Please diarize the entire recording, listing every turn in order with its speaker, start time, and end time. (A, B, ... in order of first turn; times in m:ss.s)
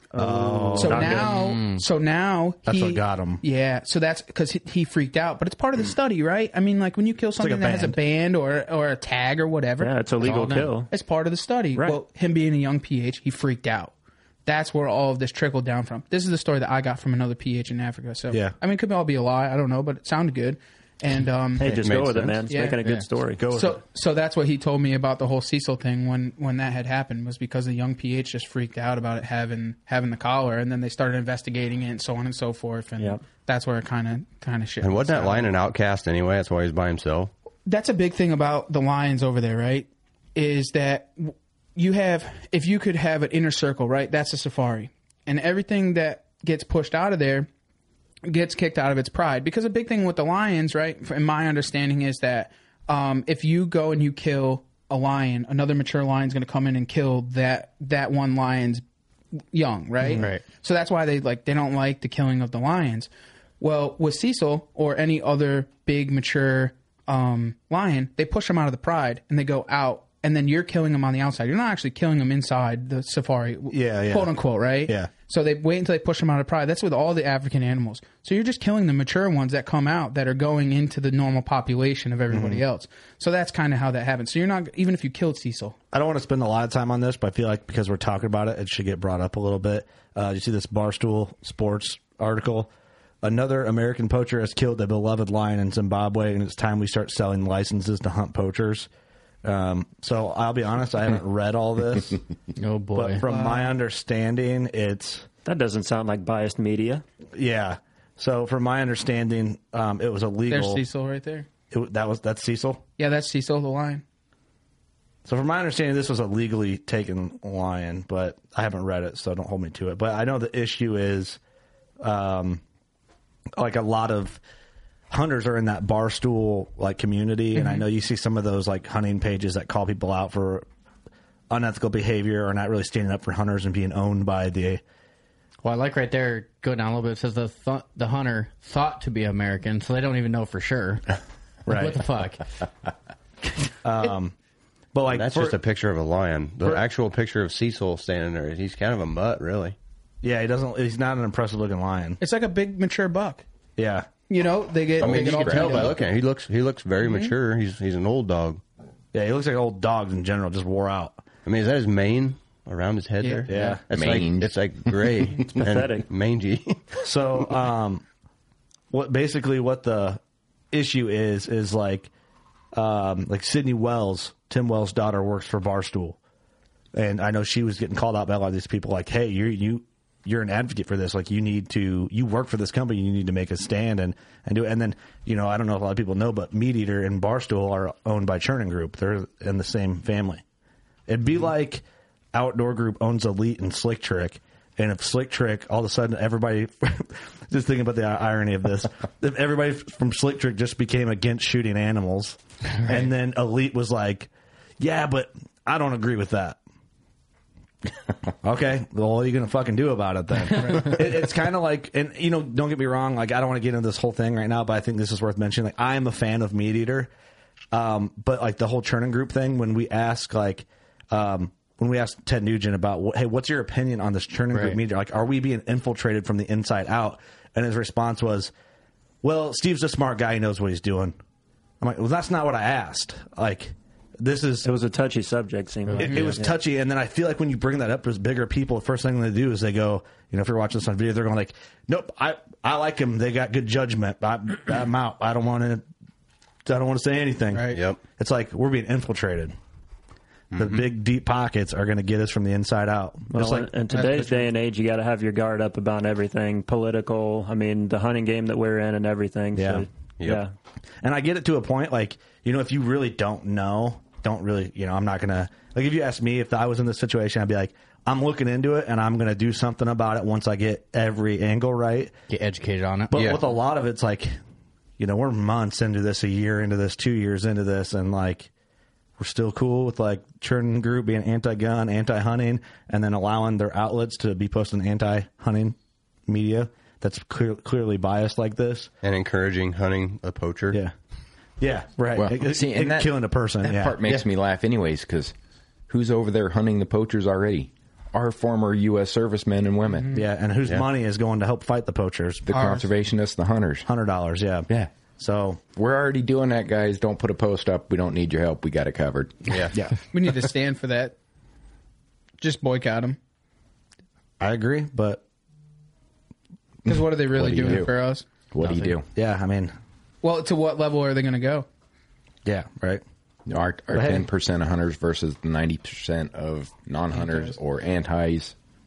0:00.1-0:01.6 A
0:00.2-0:01.2 B
0:00.8-0:09.9 C
0:01.2-0:01.8 D
0:02.6-0:03.4 B
0:07.4-0:08.0 B
0:09.8-0:10.9 A
0:10.2-0:10.7 D
0:10.9-0:13.9 C
0:14.4-0:21.8 C
0:18.3-0:18.6 B
0:21.6-0:23.5 A
0:21.6-0:22.4 E
0:22.5-0:22.8 C
0:23.4-0:23.8 B
0:23.4-0:35.5 C
0:33.0-0:33.2 A
0:34.8-0:37.3 E
0:37.6-0:47.5 C
0:48.2-0:58.8 C
0:59.5-1:25.8 C
1:00.0-1:00.3 B
1:00.2-1:00.4 D
1:13.7-1:14.3 B
1:22.3-1:22.6 B
1:25.9-1:32.7 B
1:33.2-1:38.9 B
1:39.4-1:42.2 B
1:42.6-1:43.2 D
1:42.9-1:45.2 B
1:43.2-1:43.7 C
1:45.4-1:47.0 A
1:47.3-1:50.8 B
1:50.5-1:51.5 C
1:51.7-1:52.8 B
1:53.0-1:54.0 C
1:55.2-2:01.4 B
2:02.0-2:02.6 B
2:03.6-2:04.4 B
2:05.1-2:10.6 B
2:07.6-2:07.8 C
2:11.5-2:14.8 B
2:15.6-2:21.1 D
2:21.6-2:22.0 B
2:21.7-2:22.5 D
2:23.8-2:24.3 B
2:24.9-2:25.6 B
2:25.1-2:29.7 E
2:30.2-2:32.2 B
2:32.2-2:33.4 C
2:33.8-2:34.1 B
2:34.3-2:36.0 C
2:35.0-2:35.9 F
2:35.0-2:38.6 E
2:37.0-2:37.3 C
2:39.1-2:41.2 B
2:41.4-2:47.0 E
2:43.2-2:43.6 C
2:43.5-2:43.8 B
2:43.9-2:45.2 F
2:45.6-2:46.1 A
2:47.0-2:48.0 B
2:48.9-2:50.2 B
2:50.7-2:52.1 B
2:52.7-2:56.2 B
2:56.9-3:10.4 B
3:11.1-3:26.6 B
3:28.4-3:37.1 B
3:30.6-3:30.9 C
3:37.7-3:48.5 B
3:44.5-3:44.8 D
3:49.2-3:51.2 B
3:51.8-3:54.7 B
3:54.6-3:56.6 A
3:55.9-3:56.2 D
3:56.0-4:05.8 B
4:06.6-4:09.5 B
4:07.5-4:07.8 C
4:07.7-4:08.0 E
4:10.5-4:13.7 B
4:13.3-4:20.5 A
4:14.0-4:14.3 C
4:19.6-4:19.8 B
4:21.0-4:32.1 B
4:32.3-4:33.2 D
4:33.1-4:34.4 B
4:33.1-4:33.4 E
4:35.0-4:38.5 B
4:39.2-4:48.9 B
4:49.0-4:50.8 E
4:51.6-4:54.2 B
4:52.1-4:55.3 F
4:55.9-5:00.1 F
4:59.9-5:00.2 C
5:00.1-5:02.5 B
5:02.5-5:03.9 F
5:02.5-5:02.8 C
5:03.8-5:05.6 B
5:05.8-5:09.5 F
5:09.5-5:09.7 E
5:10.1-5:11.1 C
5:12.4-5:13.2 C
5:14.4-5:15.2 B
5:16.8-5:18.2 C
5:16.9-5:17.9 F
5:18.5-5:19.1 F
5:19.1-5:19.7 B
5:20.2-5:21.6 C
5:22.4-5:23.0 B
5:23.5-5:28.5 F
5:23.9-5:24.3 B
5:27.1-5:27.5 C